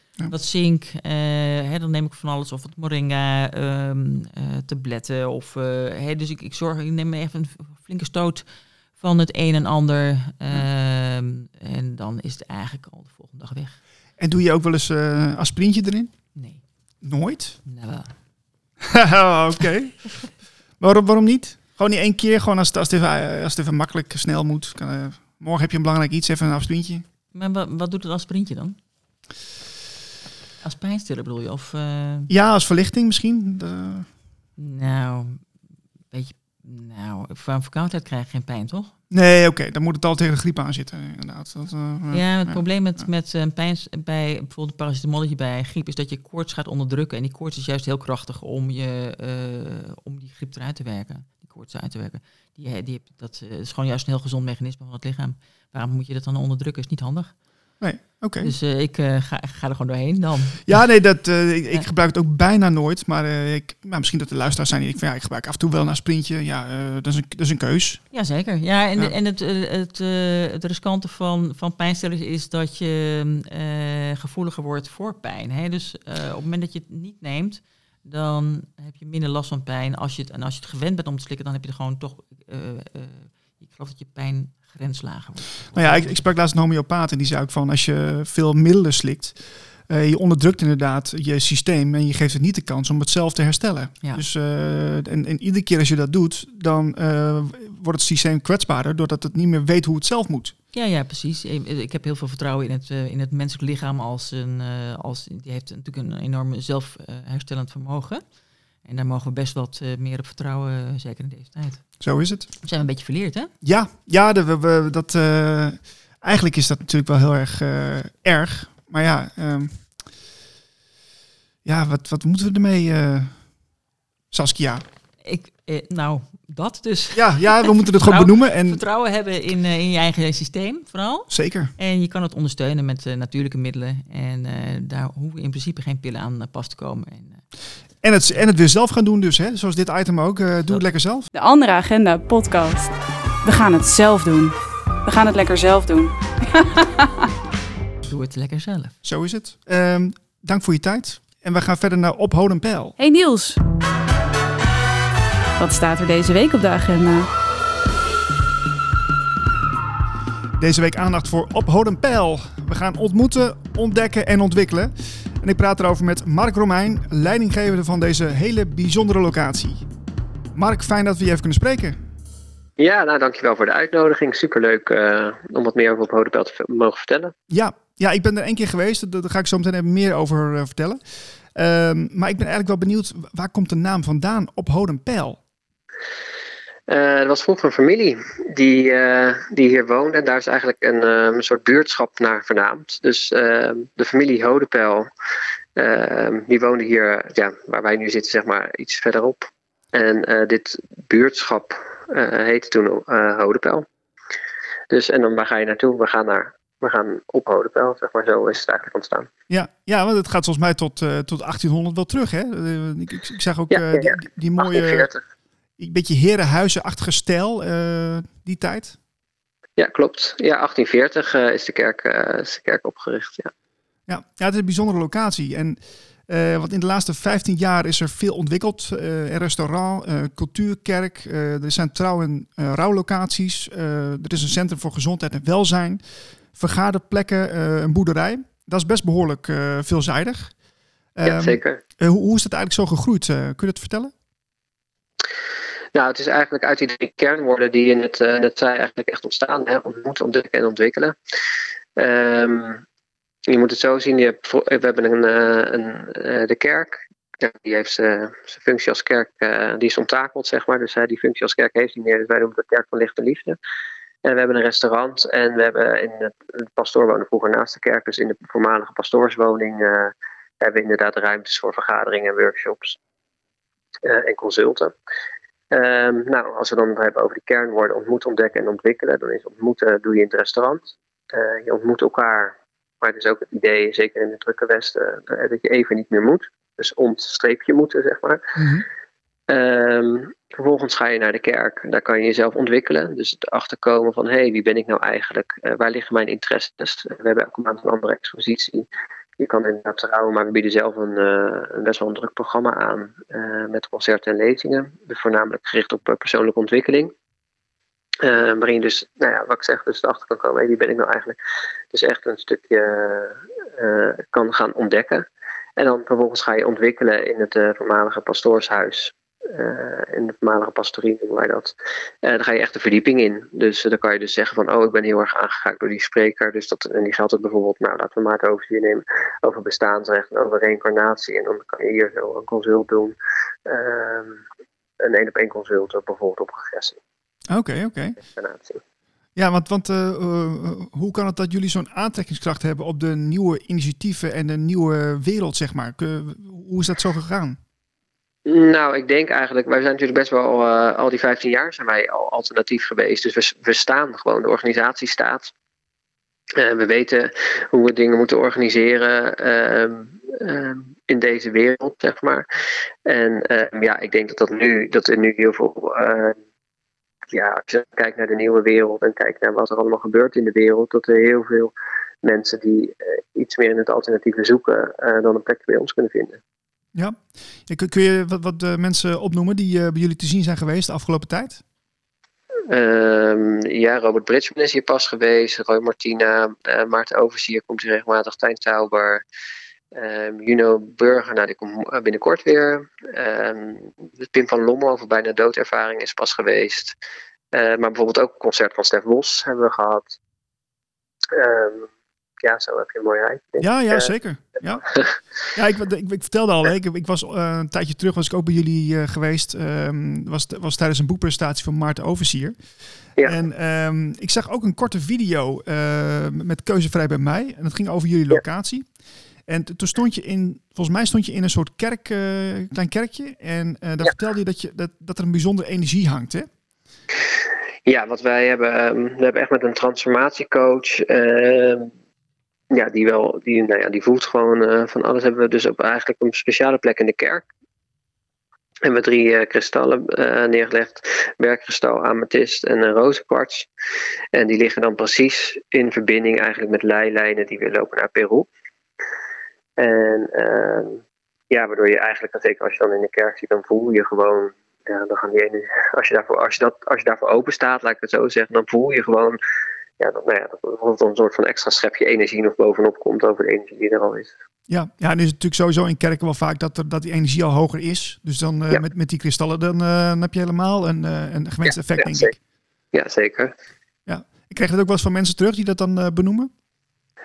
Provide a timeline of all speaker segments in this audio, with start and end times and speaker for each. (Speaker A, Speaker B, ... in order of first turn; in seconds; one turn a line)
Speaker A: 0.3-13.8
Speaker B: 14.2-16.2
Speaker A: 16.4-16.6
Speaker B: 17.0-17.6
Speaker A: 17.6-18.1
Speaker B: 18.8-27.1
Speaker A: 27.3-28.8
Speaker A: 30.6-32.3
Speaker B: 32.3-34.1
Speaker A: 34.6-35.5
Speaker A: 36.1-38.9
Speaker B: 39.1-43.1
Speaker A: 42.1-57.4
Speaker B: 57.8-58.5
Speaker A: 58.4-60.8
Speaker B: 60.6-68.1
Speaker A: 68.1-86.2
Speaker B: 85.7-100.5
Speaker A: 100.7-108.2
Speaker A: 108.8-112.0
Speaker B: 112.0-112.5
Speaker A: 112.6-113.5
Speaker B: 113.6-119.9
Speaker B: 121.7-123.5
Speaker B: 124.3-124.8
Speaker A: 125.2-137.4
Speaker B: 127.1-128.8
Speaker B: 131.3-131.7
Speaker B: 138.0-141.3
Speaker C: 141.3-142.9
Speaker C: 143.4-147.3
Speaker A: 148.0-148.9
Speaker B: 149.0-153.0
Speaker C: 153.0-153.6
Speaker C: 155.6-157.3
Speaker B: 160.6-169.9
Speaker B: 170.5-172.0
Speaker D: 172.8-177.3
Speaker B: 177.5-181.0
Speaker B: 181.5-185.4
Speaker D: 186.9-195.1
Speaker D: 195.8-203.9
Speaker D: 204.9-209.3
Speaker B: 209.5-215.1
Speaker D: 213.7-215.2
Speaker B: 215.8-219.0
Speaker D: 219.8-223.5
Speaker B: 224.1-240.5
Speaker B: 241.2-244.1
Speaker D: 241.2-241.8
Speaker D: 245.9-251.2
Speaker D: 252.0-252.8
Speaker D: 253.5-263.6
Speaker D: 264.2-273.0
Speaker D: 274.0-274.9
Speaker D: 275.7-288.6
Speaker B: 288.6-288.9
Speaker D: 289.5-298.9
Speaker D: 299.4-307.1
Speaker D: 308.2-311.4
Speaker D: 311.9-315.3
Speaker D: 315.8-333.1
Speaker D: 333.7-334.4
Speaker D: 335.0-337.0
Speaker B: 337.5-338.2
Speaker D: 338.2-338.8
Speaker B: 339.4-347.6
Speaker D: 348.5-355.5
Speaker D: 356.6-362.5
Speaker D: 363.1-366.4
Speaker D: 367.3-371.7
Speaker D: 372.2-376.4
Speaker B: 376.9-381.6
Speaker D: 382.7-389.2
Speaker D: 389.9-397.0
Speaker D: 397.5-400.2
Speaker D: 401.3-401.9
Speaker D: 402.4-404.1
Speaker B: 403.6-404.8
Speaker D: 404.9-405.1
Speaker B: 405.6-412.6
Speaker B: 413.2-418.9
Speaker B: 419.5-426.5
Speaker D: 427.9-431.9
Speaker D: 432.7-437.5
Speaker D: 438.8-443.7
Speaker D: 444.3-448.5
Speaker D: 449.8-459.4
Speaker D: 460.0-464.3
Speaker B: 464.7-472.4
Speaker D: 471.7-472.3
Speaker D: 472.9-473.5
Speaker B: 474.1-476.5